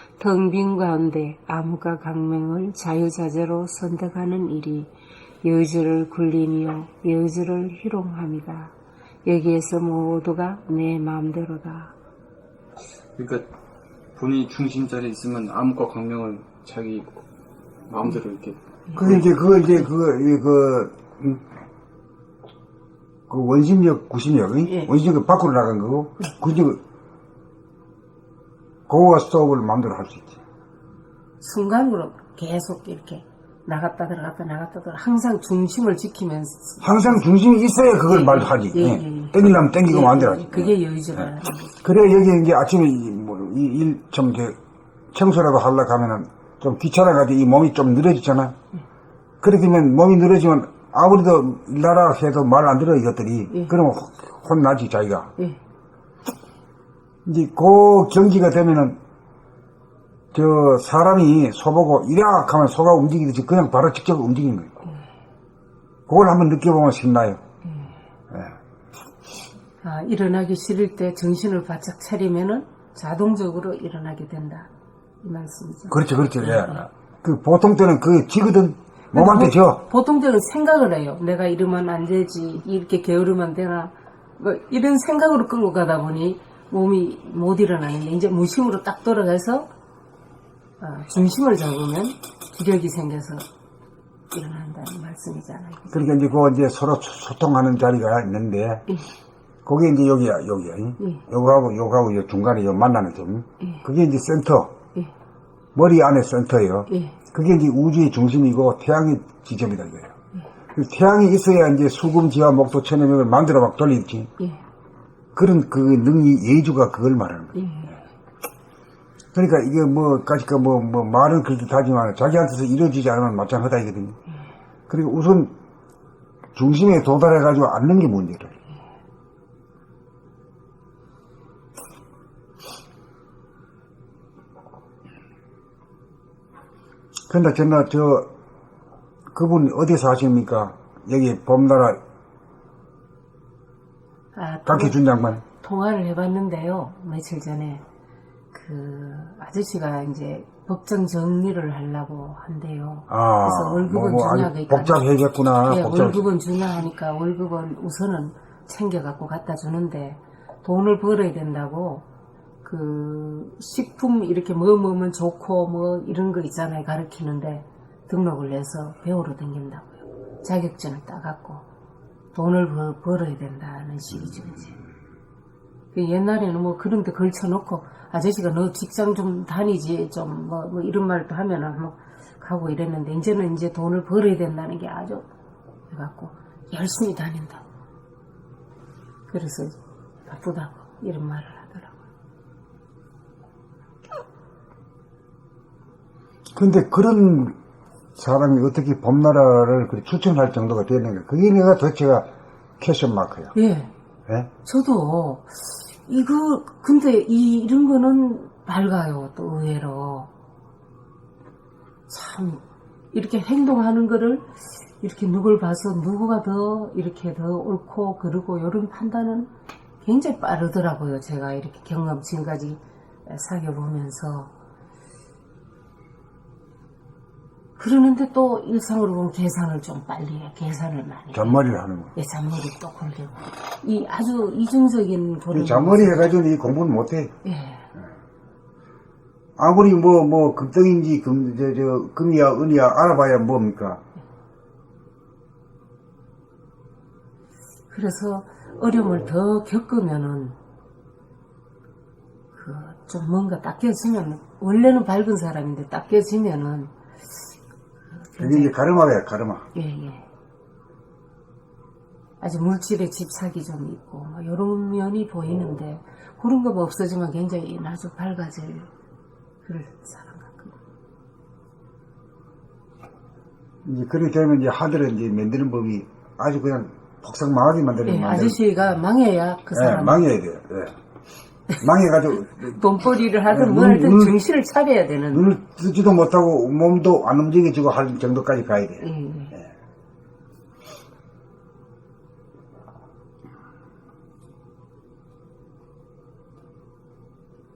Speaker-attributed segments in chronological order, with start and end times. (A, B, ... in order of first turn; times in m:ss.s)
0:00.2-0:04.9 A
0:05.4-0:08.7 A
0:09.2-0:11.9 A
0:13.2-0:13.5 B
0:14.1-0:17.1 B
0:17.9-0:19.0 B
0:18.9-0:21.4 C
0:23.3-0:26.8 C
0:28.9-0:30.4 C
0:31.4-0:37.2 A
0:36.8-0:41.3 C
0:38.1-0:41.8 A
0:41.8-0:44.6 C
0:45.1-0:48.6 C
0:49.4-0:55.3 C
0:57.2-0:59.0 C
1:00.3-1:04.7 C
1:06.1-1:07.4 C
1:08.3-1:08.6 C
1:09.8-1:14.7 A
1:15.2-1:16.8 A
1:15.9-1:19.8 C
1:19.1-1:29.7 A
1:30.8-1:33.4 A
1:34.3-1:36.0 A
1:35.9-1:38.8 C
1:39.6-1:44.7 C
1:45.7-1:50.1 C
1:46.9-1:47.2 A
1:50.7-1:54.3 C
1:55.3-1:57.6 C
1:57.6-1:57.9 A
1:59.3-2:04.2 C
2:04.9-2:05.5 C
2:06.5-2:08.5 C
2:17.3-2:18.3 C
2:19.3-2:22.0 C
2:24.3-2:27.8 A
2:24.6-2:25.4 C
2:28.5-2:35.0 A
2:33.1-2:36.3 C
2:35.7-2:42.0 A
2:42.6-2:51.6 A
2:52.3-2:54.8 A
2:55.9-3:05.2 A
3:05.9-3:07.6 A
3:09.3-3:09.7 A
3:10.3-3:12.0 A
3:16.5-3:17.6 C
3:18.1-3:23.5 C
3:23.5-3:23.9 A
3:24.6-3:30.3 A
3:32.1-3:39.5 A
3:40.0-3:44.5 A
3:47.8-3:51.6 A
3:51.3-3:52.1 C
3:52.1-3:56.3 A
3:55.5-3:57.3 C
3:57.4-3:57.9 A
3:59.6-4:04.0 C
4:07.9-4:10.6 A
4:12.5-4:17.5 A
4:18.1-4:18.7 A
4:18.4-4:19.6 C
4:19.7-4:20.2 A
4:22.4-4:28.9 A
4:29.6-4:30.8 A
4:33.8-4:38.6 C
4:38.0-4:40.3 A
4:39.7-4:41.0 C
4:41.8-4:42.8 C
4:42.7-4:45.4 A
4:43.5-4:44.4 C
4:45.3-4:49.7 C
4:49.0-4:49.5 A